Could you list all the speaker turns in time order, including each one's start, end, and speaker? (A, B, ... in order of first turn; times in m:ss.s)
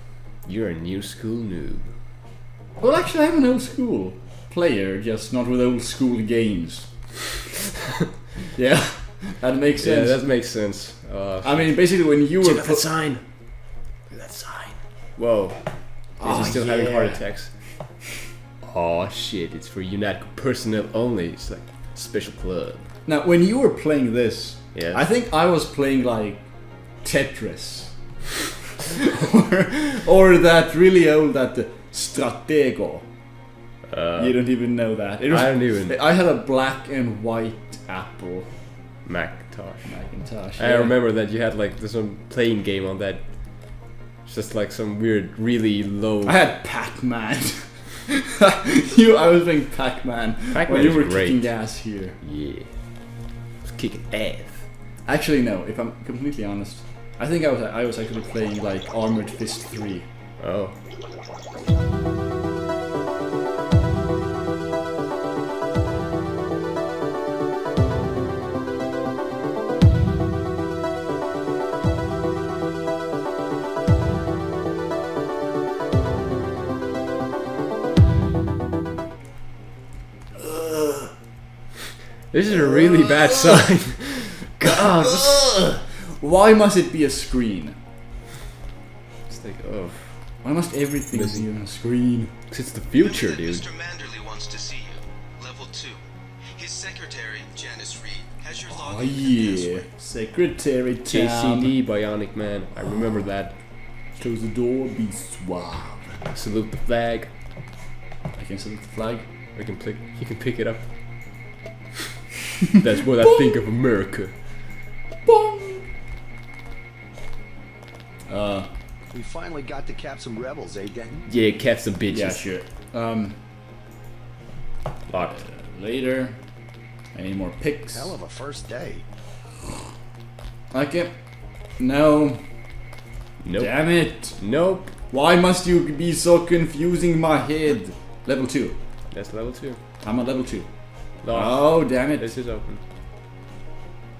0:00.4-0:01.9 A
0:02.8-0:07.2 B
0:08.5-0:10.2 B
0:09.8-0:17.6 A
0:11.4-0:12.9 B
0:16.2-0:17.2 B
0:18.6-0:22.9 A
0:23.0-0:26.4 B
0:24.7-0:25.0 A
0:27.0-0:28.0 B
0:28.8-0:33.1 B
0:33.9-0:34.4 A
0:34.2-0:38.5 B
0:35.2-0:36.0 A
0:39.0-0:46.5 A
0:39.8-0:41.0 B
0:46.2-0:52.2 B
0:50.5-0:52.8 A
0:53.6-0:54.7 A
0:55.0-1:00.1 B
1:00.4-1:00.8 A
1:20.3-1:21.1 B
1:22.3-1:25.5 A
1:22.5-1:23.7 B
1:24.6-1:27.8 B
1:29.3-1:30.2 A
1:30.4-1:32.3 B
1:31.1-1:31.4 A
1:32.5-1:33.7 A
1:33.1-1:35.9 C
1:36.6-1:39.6 C
1:38.7-1:41.8 B
1:41.0-1:43.6 A
1:42.7-1:43.2 B
1:44.1-1:46.2 B
1:46.3-1:47.3 A
1:48.3-1:49.2 B
1:49.5-1:51.4 A
1:52.8-1:54.4 A
1:55.2-1:55.8 B
1:58.3-1:58.7 B
1:59.1-2:01.2 D
2:01.3-2:02.4 A
2:02.1-2:03.4 B
2:05.1-2:05.4 A
2:05.3-2:06.4 B
2:07.1-2:08.2 B
2:07.9-2:09.0 D
2:10.7-2:11.2 B
2:11.8-2:12.4 B
2:13.4-2:14.9 A
2:13.6-2:14.4 B
2:15.1-2:18.8 B
2:19.1-2:19.8 A
2:20.0-2:22.3 B
2:21.2-2:22.8 A